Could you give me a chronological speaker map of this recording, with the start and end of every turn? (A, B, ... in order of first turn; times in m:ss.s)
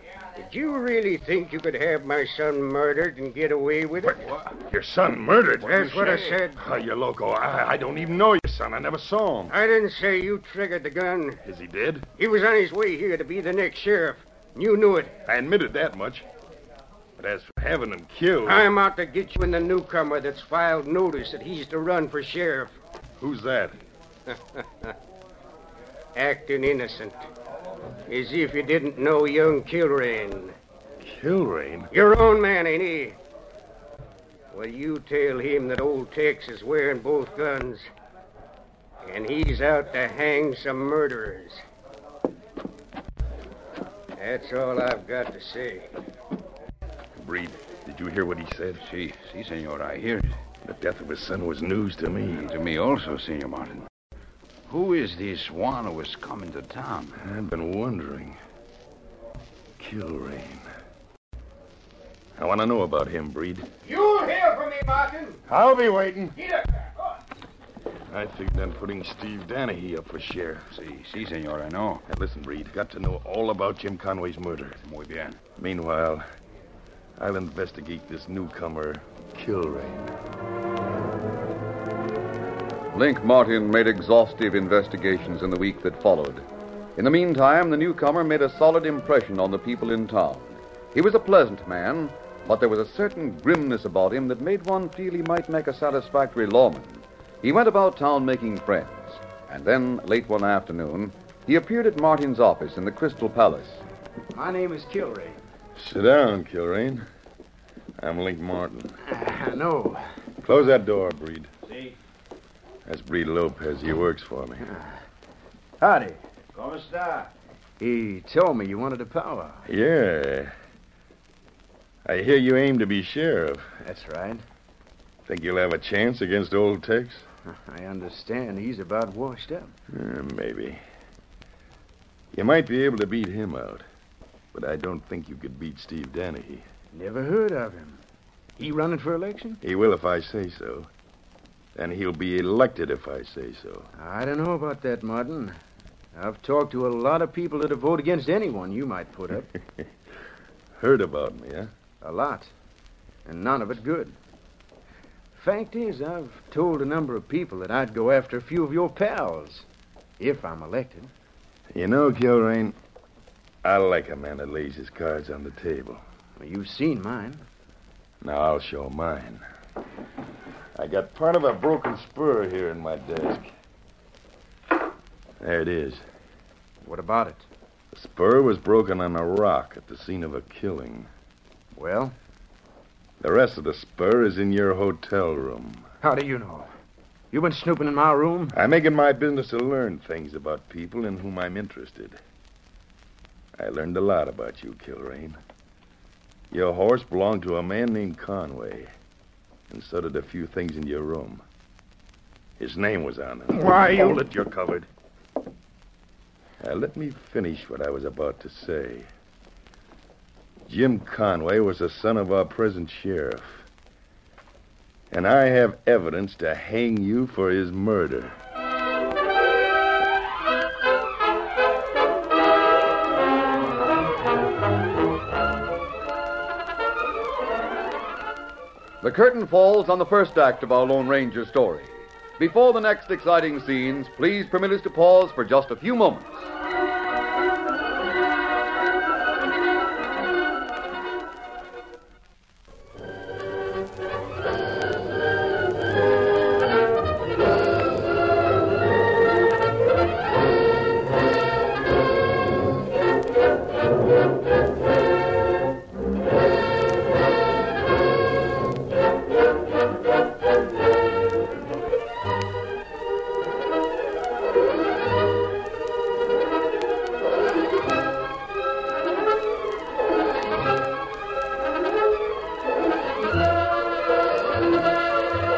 0:00.4-0:04.2 A
0:04.1-0:09.5 B
0:05.6-0:06.6 A
0:09.5-0:11.4 A
0:11.4-0:12.0 B
0:12.2-0:15.2 A
0:15.2-0:16.2 B
0:17.2-0:18.7 B
0:18.4-0:22.7 A
0:23.2-0:23.8 B
0:24.3-0:24.9 A
0:26.2-0:27.2 A
0:28.1-0:30.5 A
0:31.0-0:31.9 B
0:31.9-0:33.2 A
0:34.5-0:37.9 A
0:39.0-0:41.6 A
0:44.2-0:45.9 A
0:47.2-0:48.8 B
0:48.8-0:50.4 C
0:50.6-0:52.5 B
0:52.4-0:53.8 C
0:54.7-0:57.2 C
0:57.2-0:58.4 B
0:59.8-1:00.6 B
1:02.4-1:03.6 B
1:03.8-1:05.4 A
1:05.5-1:06.3 B
1:06.4-1:06.6 A
1:08.1-1:10.7 B
1:10.7-1:12.0 C
1:12.1-1:14.8 B
1:14.8-1:15.4 C
1:15.6-1:16.2 B
1:17.2-1:20.1 B
1:22.9-1:26.4 D
1:27.0-1:43.8 D
1:44.3-1:45.4 E
1:45.8-1:47.0 B
1:48.0-1:48.9 B
1:49.0-1:50.0 E
1:50.4-1:51.5 B
1:52.8-1:54.6 B
1:55.8-1:56.2 E
1:56.5-1:57.3 C
1:57.8-1:59.6 E
1:59.6-2:00.5 B
2:02.0-2:03.7 B
2:03.8-2:04.4 E
2:05.2-2:07.2 B
2:07.5-2:09.7 E
2:09.9-2:10.8 B
2:12.3-2:13.8 B
2:14.5-2:16.6 B
2:16.9-2:18.0 E
2:18.6-2:19.6 E
2:19.6-2:20.9 B
2:21.7-2:23.9 B
2:24.0-2:25.6 E
2:26.1-2:29.5 E
2:30.8-2:31.7 B
2:32.0-2:32.5 E
2:33.2-2:34.1 E
2:35.3-2:39.6 E
2:40.2-2:41.1 E
2:41.7-2:42.7 B
2:43.6-2:46.0 B
2:46.4-2:47.4 E
2:48.2-2:49.4 B
2:50.8-2:53.5 B
2:55.4-2:56.0 B
2:56.8-2:57.4 E
2:57.9-3:01.1 B
3:01.8-3:02.1 E
3:03.2-3:05.9 B
3:06.0-3:06.7 E
3:07.3-3:08.6 E
3:08.5-3:12.2 B
3:13.6-3:15.4 B
3:16.5-3:18.9 B
3:19.7-3:21.4 B
3:22.6-3:24.8 B
3:26.6-3:29.1 B
3:30.6-3:33.6 B
3:35.1-3:38.4 B
3:49.0-3:56.5 D